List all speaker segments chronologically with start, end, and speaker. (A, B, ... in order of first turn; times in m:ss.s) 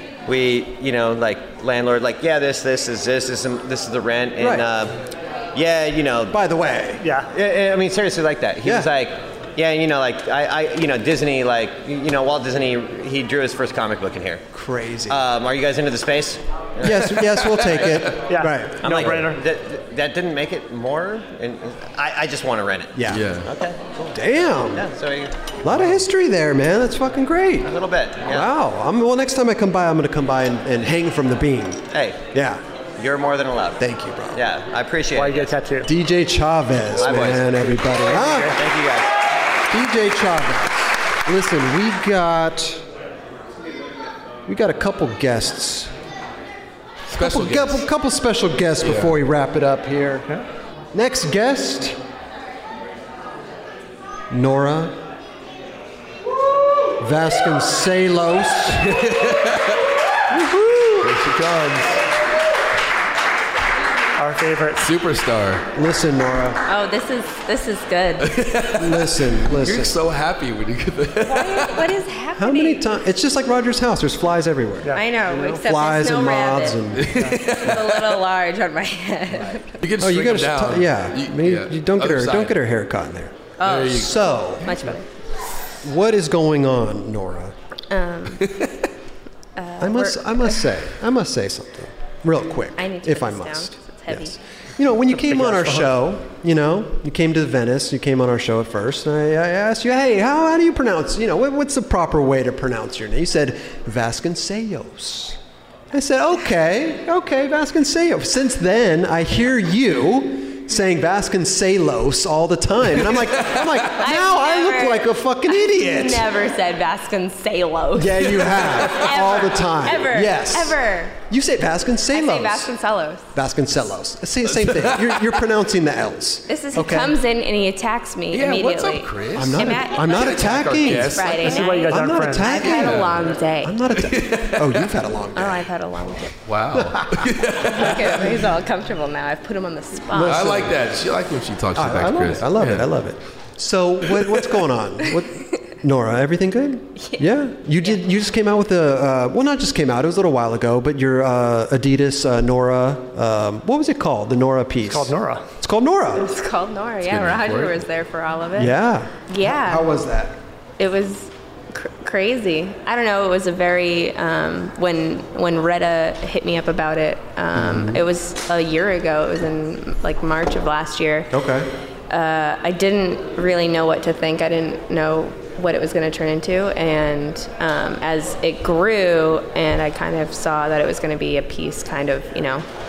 0:00.2-0:05.0 A
0:04.4-0:04.7 B
0:05.5-0:06.4 A
0:06.3-0:07.0 B
0:07.0-0:07.3 C
0:07.3-0:14.4 A
0:08.6-0:08.9 B
0:14.5-0:15.2 B
0:15.1-0:17.1 A
0:16.8-0:19.2 B
0:17.4-0:18.1 D
0:17.7-0:18.0 A
0:18.2-0:19.4 C
0:18.8-0:25.4 A
0:22.9-0:23.3 B
0:23.1-0:23.5 D
0:24.1-0:24.9 B
0:25.6-0:27.7 B
0:27.6-0:28.5 A
0:28.2-0:32.6 B
0:31.9-0:32.3 A
0:33.0-0:35.6 A
0:33.8-0:34.4 B
0:35.1-0:35.9 C
0:35.8-0:38.5 B
0:37.0-0:39.2 A
0:38.2-0:38.6 C
0:39.7-0:42.8 B
0:44.5-0:45.9 B
0:47.1-0:47.8 D
0:47.1-0:50.2 B
0:48.8-0:49.2 D
0:50.9-0:52.0 B
0:54.3-0:55.0 B
0:57.0-0:58.9 B
0:58.7-0:59.8 D
1:00.3-1:01.2 B
1:01.0-1:02.0 D
1:04.2-1:04.8 C
1:04.8-1:05.6 D
1:05.7-1:06.6 B
1:06.6-1:08.3 E
1:08.2-1:11.8 D
1:08.7-1:10.0 B
1:11.2-1:12.9 E
1:12.4-1:17.3 B
1:14.9-1:16.9 E
1:16.9-1:18.2 D
1:17.5-1:19.8 E
1:19.8-1:22.6 D
1:20.0-1:24.8 B
1:23.6-1:24.1 E
1:23.6-1:24.7 D
1:24.6-1:25.0 E
1:25.8-1:27.5 B
1:27.9-1:28.5 E
1:29.6-1:30.7 E
1:29.8-1:45.4 B
1:32.8-1:34.4 E
1:35.1-1:35.9 C
1:45.9-1:56.3 B
1:54.0-2:01.2 E
1:57.9-2:02.7 B
2:02.1-2:03.3 E
2:03.3-2:07.2 B
2:04.5-2:05.2 D
2:06.5-2:13.8 E
2:08.3-2:11.7 D
2:09.3-2:15.7 B
2:11.4-2:12.6 C
2:12.6-2:13.2 D
2:13.9-2:14.9 D
2:15.3-2:16.3 E
2:16.4-2:18.4 D
2:16.7-2:17.3 B
2:17.7-2:20.5 E
2:20.1-2:20.8 B
2:20.1-2:22.9 D
2:21.7-2:36.3 B
2:27.0-2:27.3 E
2:34.9-2:35.4 C
2:36.2-2:39.9 E
2:37.0-2:37.8 D
2:38.6-2:40.4 B
2:40.8-2:51.3 E
2:47.5-2:48.0 B
2:51.3-2:51.7 B
2:52.1-3:02.6 E